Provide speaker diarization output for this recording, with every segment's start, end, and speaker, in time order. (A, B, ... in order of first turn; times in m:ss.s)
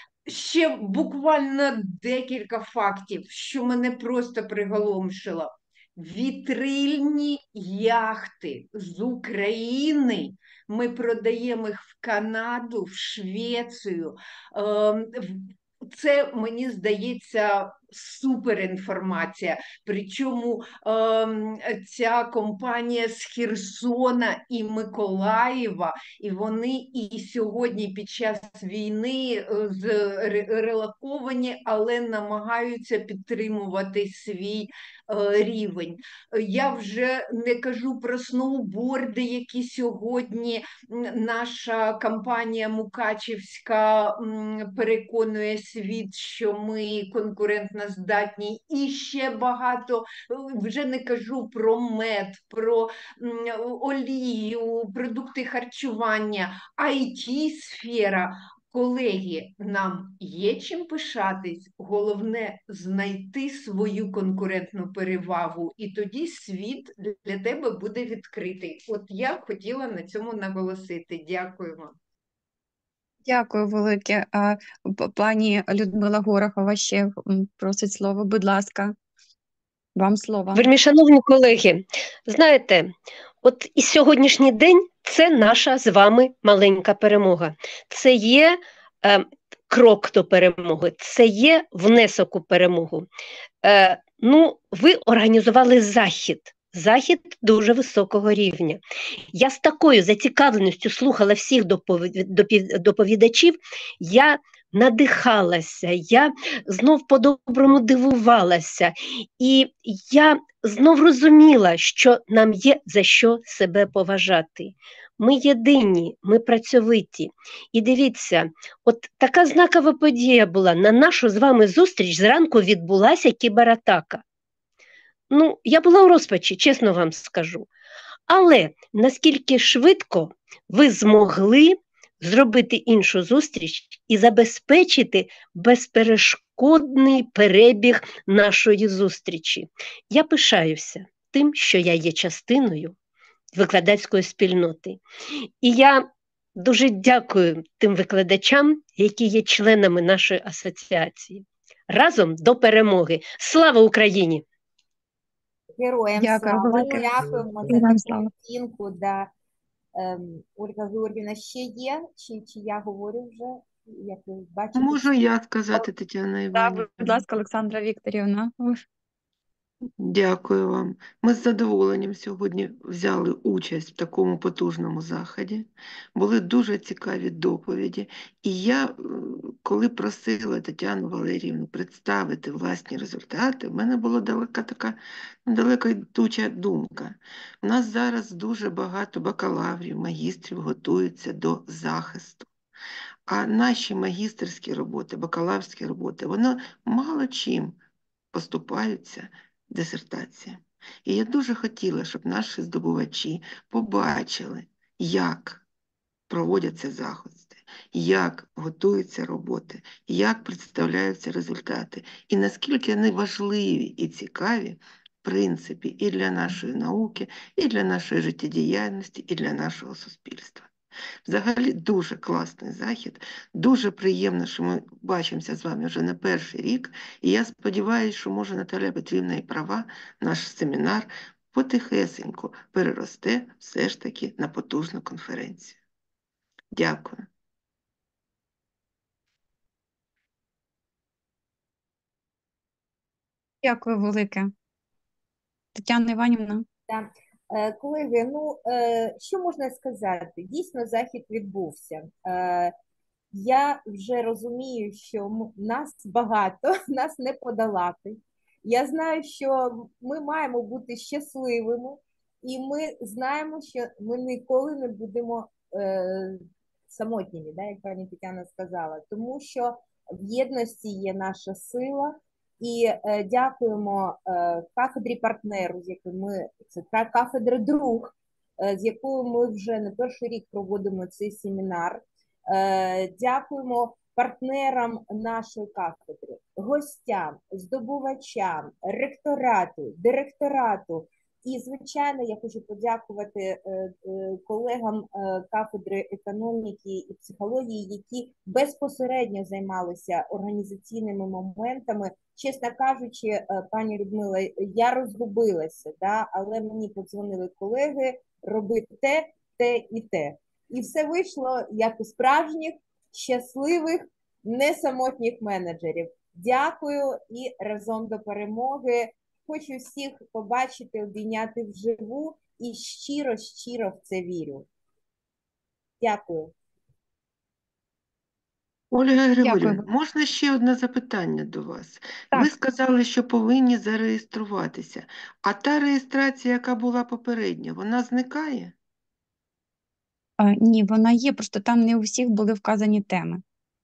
0:00.3-1:12.0 A
1:13.2-1:19.0 B
1:20.0-1:20.7 B
1:20.5-1:22.9 C
1:23.4-1:33.1 C
1:33.6-2:04.2 C
2:05.3-2:07.7 C
2:08.3-2:23.0 C
2:23.5-2:25.0 C
2:25.6-2:34.4 C
2:35.8-2:39.3 D
2:36.2-2:38.3 B
2:40.0-2:45.3 D
2:44.8-2:47.2 E
2:46.5-2:48.8 B
2:50.0-3:12.5 E
3:13.3-3:17.8 E
3:18.3-3:25.6 E
3:26.3-3:40.7 E
3:41.3-3:55.8 E
3:56.7-3:57.3 E
4:03.6-4:04.5 B
4:05.8-4:06.6 B
4:06.9-4:12.7 D
4:13.3-5:24.7 D
5:26.0-5:26.5 D
5:28.9-5:38.8 E
5:29.4-5:29.8 B
5:40.4-5:43.4 B